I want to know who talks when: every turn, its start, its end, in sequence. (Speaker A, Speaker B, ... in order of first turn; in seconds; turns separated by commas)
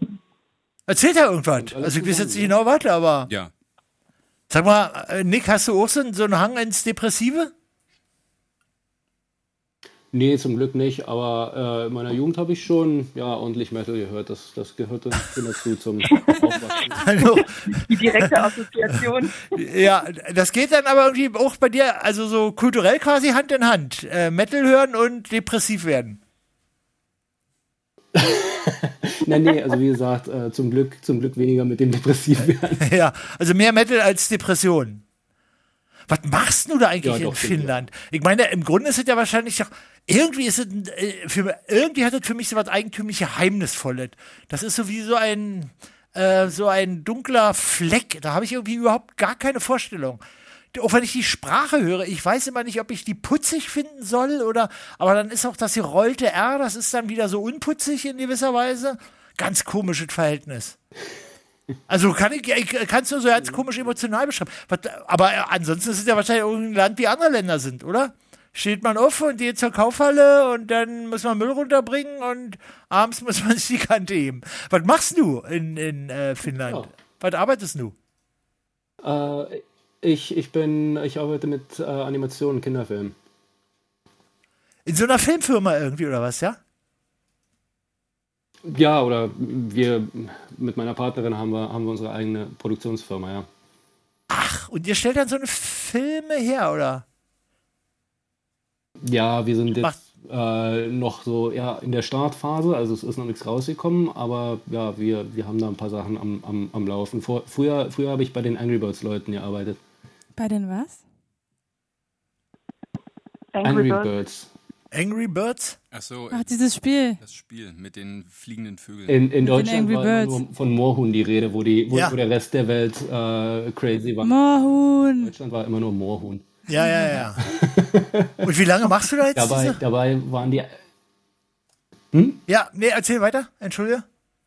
Speaker A: 0.9-3.3, Speaker B: 1.6-2.5, Speaker A: 4.5-7.5, Speaker B: 10.1-17.1, Speaker C: 16.1-16.4, Speaker A: 16.9-18.4, Speaker C: 17.4-19.5, Speaker A: 19.5-26.2, Speaker B: 28.1-32.9, Speaker A: 32.8-35.0, Speaker A: 36.1-50.2, Speaker B: 37.0-37.9, Speaker A: 50.7-60.8, Speaker A: 61.9-78.0, Speaker B: 76.7-76.9, Speaker B: 79.0-83.2, Speaker A: 84.9-86.6, Speaker B: 88.7-93.5, Speaker A: 94.3-97.0, Speaker B: 99.0-109.8, Speaker D: 110.4-111.0, Speaker C: 113.5-114.1, Speaker B: 113.6-114.5, Speaker A: 114.9-115.8, Speaker E: 115.9-116.5, Speaker D: 116.3-117.2, Speaker E: 117.2-119.2, Speaker B: 119.1-124.4, Speaker D: 119.4-120.4, Speaker A: 121.9-122.2, Speaker D: 124.2-125.3, Speaker B: 125.2-126.5, Speaker A: 126.7-127.4, Speaker D: 126.8-127.2, Speaker B: 127.4-128.5, Speaker A: 128.4-129.8, Speaker B: 129.3-130.7, Speaker B: 132.1-132.4, Speaker A: 132.5-134.1